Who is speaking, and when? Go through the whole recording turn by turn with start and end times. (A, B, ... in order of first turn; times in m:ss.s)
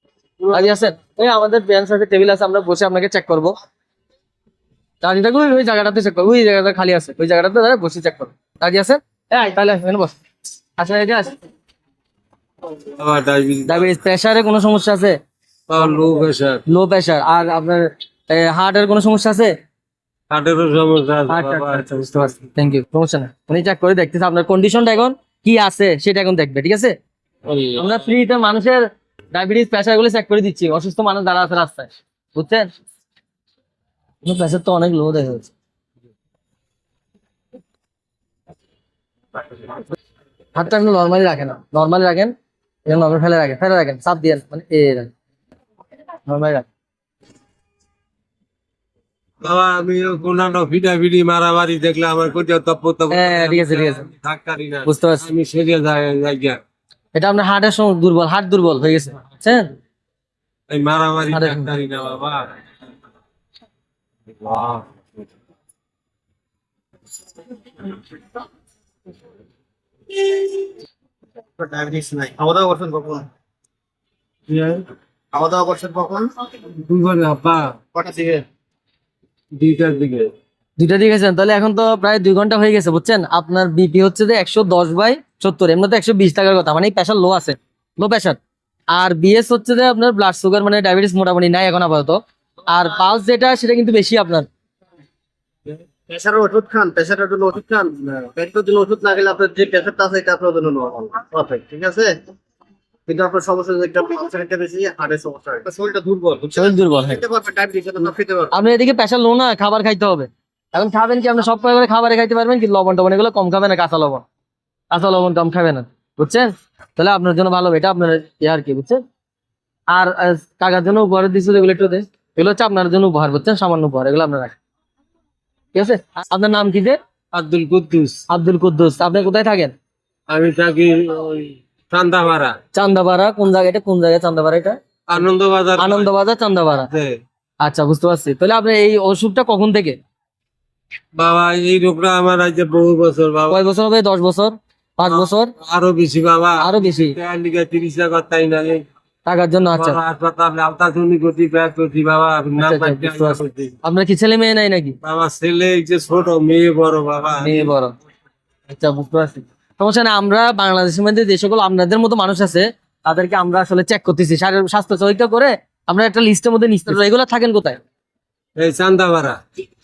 0:00.4-0:00.7 A
0:00.5-0:03.6 B
0:05.0-0:10.2 B
0:10.8-0:11.4 B
0:12.9-0:13.9 A
0:13.6-0:15.2 B
0:15.7-0:16.6 A
0:16.7-0:19.5 B
0:20.3-0:22.0 A
0:21.3-0:26.9 B
0:27.5-0:27.8 A
0:27.8-0:32.7 B
0:34.2-0:35.5 B
0:40.5-0:42.3 B
0:42.9-0:45.1 B
0:46.2-0:46.6 B
0:49.4-0:56.6 A
0:53.1-0:54.1 B
0:54.8-0:55.2 B
0:57.1-0:59.7 B
1:00.7-1:02.5 A
1:01.3-1:01.7 B
1:04.4-1:05.0 A
1:11.6-1:13.3 C
1:14.5-1:14.8 A
1:15.3-1:16.3 C
1:16.7-1:17.8 A
1:17.9-1:18.4 C
1:19.5-1:20.3 A
1:20.8-1:28.4 B
1:28.9-1:34.5 B
1:36.1-1:42.2 C
1:43.1-1:48.5 C
1:46.5-1:47.2 B
1:48.5-1:54.2 B
1:54.9-1:59.0 B
1:59.9-2:04.5 B
2:05.7-2:07.0 B
2:07.3-2:08.2 A
2:08.3-2:09.7 B
2:10.3-2:12.6 A
2:12.7-2:14.8 B
2:15.1-2:16.1 A
2:15.8-2:16.9 B
2:16.9-2:17.1 A
2:17.6-2:20.0 B
2:21.1-2:23.6 A
2:23.5-2:25.5 B
2:25.0-2:28.8 A
2:26.6-2:27.2 B
2:29.2-2:30.0 B
2:29.7-2:33.7 A
2:32.6-2:35.0 B
2:35.0-2:37.7 A
2:37.4-2:37.9 B
2:38.7-2:47.8 B
2:48.6-2:49.4 A